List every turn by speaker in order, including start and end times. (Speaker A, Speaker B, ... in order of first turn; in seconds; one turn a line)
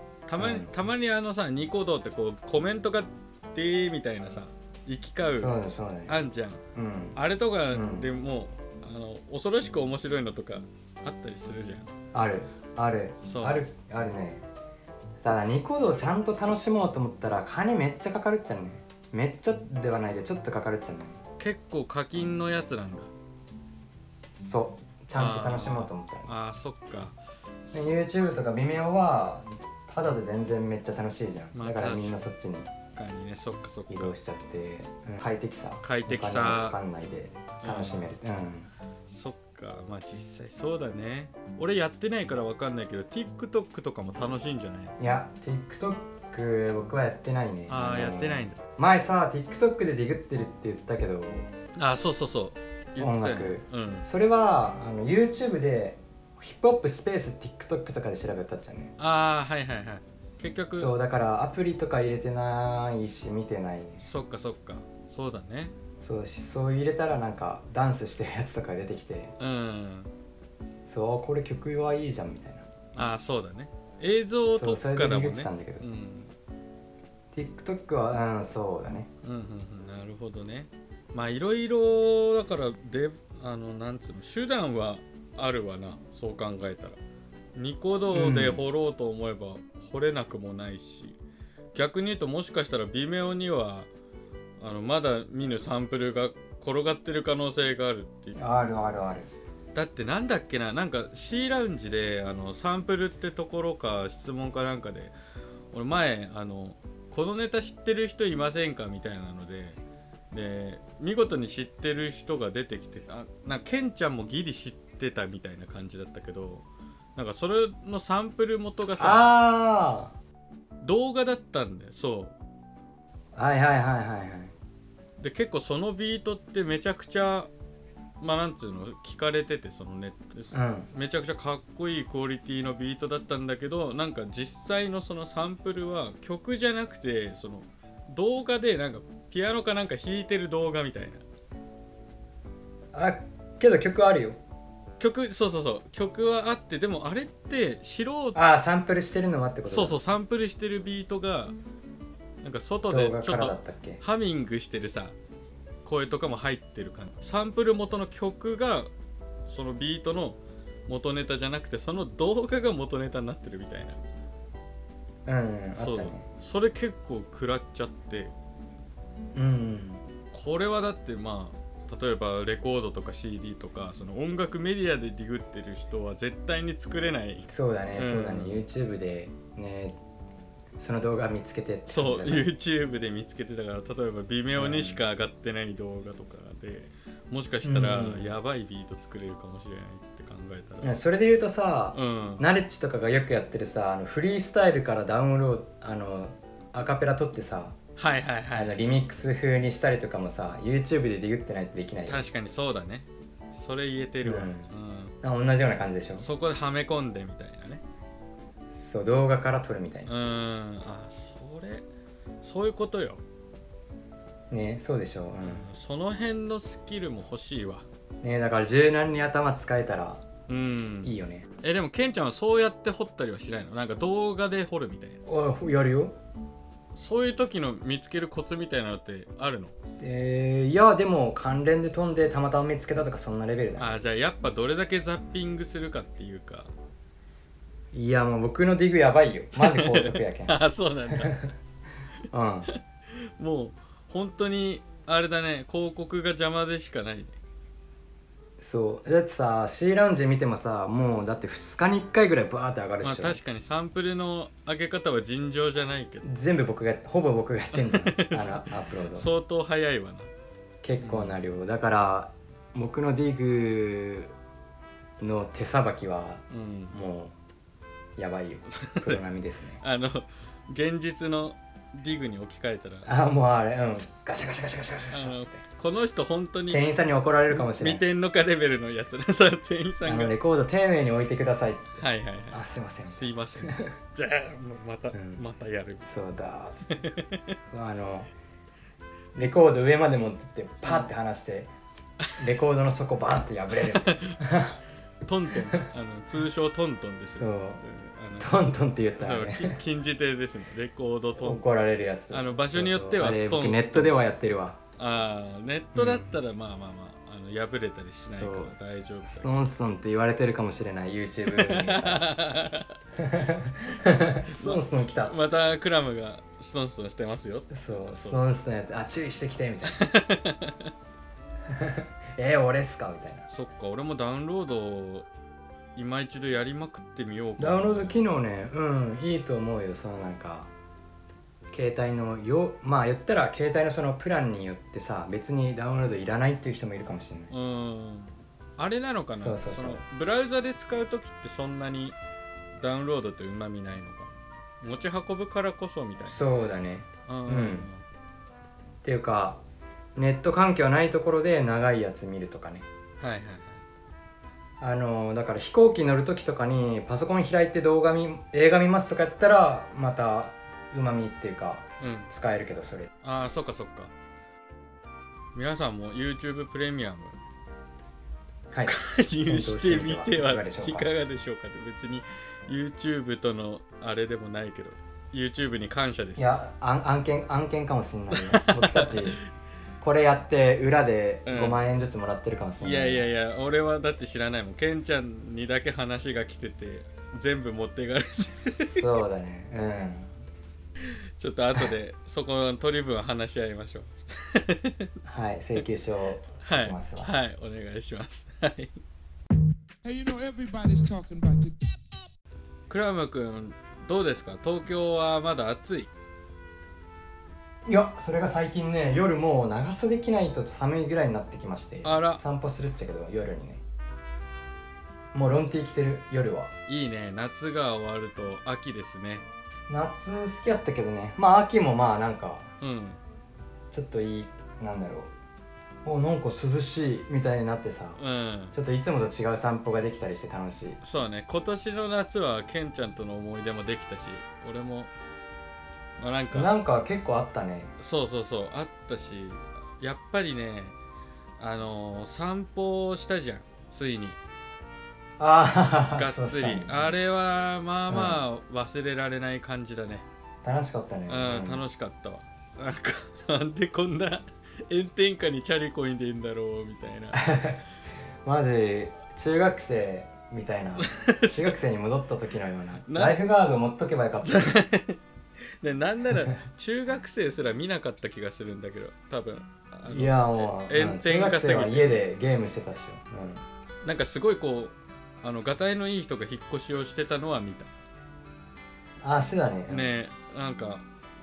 Speaker A: 0.2-6.6
Speaker B: 0.3-0.7
Speaker B: 5.3-6.1
Speaker B: 6.7-7.2
Speaker A: 7.1-11.9
Speaker B: 7.7-8.1
Speaker B: 12.1-14.4
Speaker A: 13.2-13.6
Speaker B: 15.2-21.2
Speaker A: 21.4-23.1
Speaker B: 24.4-26.3
Speaker A: 25.1-27.2
Speaker B: 27.7-32.7
Speaker A: 31.5-32.2
Speaker A: 32.9-34.1
Speaker B: 33.9-38.7
Speaker A: 35.8-36.8
Speaker A: 37.6-38.1
Speaker A: 39.1-44.9
Speaker B: 45.0-51.5
Speaker A: 47.7-48.6
Speaker A: 51.8-54.0
Speaker B: 53.0-58.9
Speaker A: 59.0-60.9
Speaker B: 60.7-64.0
Speaker A: 64.0-65.7
Speaker B: 66.0-69.3
Speaker A: 69.4-70.1
Speaker B: 70.9-72.7
Speaker A: 72.9-76.3
Speaker B: 74.5-75.8
Speaker B: 77.3-79.1
Speaker A: 79.2-87.0
Speaker A: 87.5-91.2
Speaker B: 88.1-88.6
Speaker A: 91.7-93.9
Speaker A: 94.6-98.4
Speaker B: 98.3-99.3
Speaker A: 99.7-105.1
Speaker A: 105.7-109.8
Speaker A: 110.3-116.6
Speaker A: 117.2-119.2
Speaker B: 119.0-120.1
Speaker A: 120.8-122.3
Speaker B: 123.3-124.5
Speaker A: 125.2-127.5
Speaker A: 128.2-141.2
Speaker B: 130.5-130.9
Speaker B: 142.9-144.4
Speaker A: 145.0-148.4
Speaker B: 148.3-150.0
Speaker A: 149.7-151.5
Speaker A: 152.4-155.1
Speaker B: 152.9-154.0
Speaker A: 155.8-158.9
Speaker A: 159.5-164.0
Speaker B: 165.2-166.2
Speaker A: 165.8-168.3
Speaker B: 169.3-170.0
Speaker A: 170.3-178.6
Speaker B: 177.5-180.0
Speaker B: 180.8-182.5
Speaker A: 181.9-190.9
Speaker B: 184.6-185.0
Speaker B: 187.6-188.3
Speaker B: 190.8-197.8
Speaker A: 191.9-192.4
Speaker A: 198.0-198.8
Speaker B: 198.5-202.2
Speaker A: 202.1-205.1
Speaker B: 204.2-204.7
Speaker B: 205.2-206.2
Speaker A: 206.2-207.8
Speaker B: 208.7-210.1
Speaker A: 210.1-211.8
Speaker A: 212.4-213.2
Speaker B: 214.5-215.6
Speaker A: 215.4-217.8
Speaker B: 218.2-220.2
Speaker A: 220.5-225.2
Speaker B: 221.0-221.5
Speaker B: 225.2-226.2
Speaker A: 226.9-229.7
Speaker B: 230.0-233.9
Speaker A: 233.8-236.7
Speaker B: 237.9-240.6
Speaker A: 239.5-241.5
Speaker B: 241.1-241.5
Speaker B: 242.3-242.7
Speaker A: 243.4-247.3
Speaker B: 248.6-253.4
Speaker A: 253.0-256.3
Speaker B: 256.2-259.3
Speaker A: 257.7-260.3
Speaker B: 260.8-264.3
Speaker A: 261.0-261.4
Speaker B: 265.2-267.3
Speaker A: 266.5-267.0
Speaker B: 268.1-269.8
Speaker A: 268.7-269.2
Speaker A: 269.8-273.1
Speaker B: 273.1-275.6
Speaker A: 275.1-276.9
Speaker B: 276.7-278.0
Speaker A: 277.5-280.3
Speaker B: 280.0-283.9
Speaker A: 282.0-286.1
Speaker B: 285.1-285.4
Speaker B: 286.1-286.9
Speaker A: 286.9-287.5
Speaker B: 287.7-288.3
Speaker B: 289.3-291.7
Speaker B: 292.4-294.8
Speaker A: 293.7-294.5
Speaker A: 295.2-298.6
Speaker B: 297.4-297.8
Speaker B: 298.4-299.8
Speaker A: 299.2-301.6
Speaker B: 301.4-304.8
Speaker A: 302.3-304.2
Speaker A: 305.0-309.5
Speaker B: 305.9-306.3
Speaker B: 308.4-308.7
Speaker B: 309.2-312.2
Speaker A: 311.5-312.9
Speaker B: 313.2-315.4
Speaker A: 314.4-318.4
Speaker B: 317.7-320.0
Speaker A: 319.8-320.9
Speaker B: 321.7-323.5
Speaker A: 323.5-325.3
Speaker A: 325.9-328.2
Speaker B: 327.6-330.7
Speaker B: 331.7-337.5
Speaker A: 337.5-342.1
Speaker B: 339.4-340.0
Speaker A: 342.8-346.4
Speaker B: 346.2-347.9
Speaker A: 347.3-348.0
Speaker B: 349.0-349.6
Speaker B: 350.1-352.9
Speaker A: 353.2-353.8
Speaker B: 354.8-363.1
Speaker A: 362.0-362.3
Speaker A: 363.2-364.1
Speaker A: 365.5-367.4
Speaker A: 368.9-376.6
Speaker B: 369.5-371.1
Speaker B: 376.4-379.4
Speaker A: 378.3-379.3
Speaker B: 380.0-383.3
Speaker A: 381.4-381.8
Speaker A: 382.8-389.0
Speaker B: 388.6-390.4
Speaker A: 391.0-395.1
Speaker B: 395.2-397.3
Speaker A: 396.6-399.0
Speaker C: 400.0-402.0
Speaker A: 402.9-406.1
Speaker B: 407.9-413.8
Speaker A: 412.0-412.4
Speaker B: 415.3-416.7
Speaker A: 416.9-419.4
Speaker B: 419.9-422.7
Speaker A: 422.8-423.2
Speaker B: 423.9-425.3
Speaker B: 426.0-428.2
Speaker A: 428.2-428.7
Speaker B: 428.7-431.0
Speaker A: 431.0-435.1
Speaker A: 436.2-436.7
Speaker B: 436.5-437.9
Speaker A: 438.0-440.9
Speaker A: 441.6-444.4
Speaker B: 445.4-447.1
Speaker A: 446.1-450.2
Speaker B: 448.1-448.4
Speaker B: 450.6-451.8
Speaker A: 451.3-457.6
Speaker B: 457.4-457.8
Speaker B: 458.4-464.8
Speaker A: 461.0-461.8
Speaker A: 463.0-463.4
Speaker A: 464.4-465.2
Speaker A: 465.8-472.2
Speaker B: 470.1-473.6
Speaker A: 474.0-477.9
Speaker B: 479.2-480.1
Speaker A: 479.9-481.0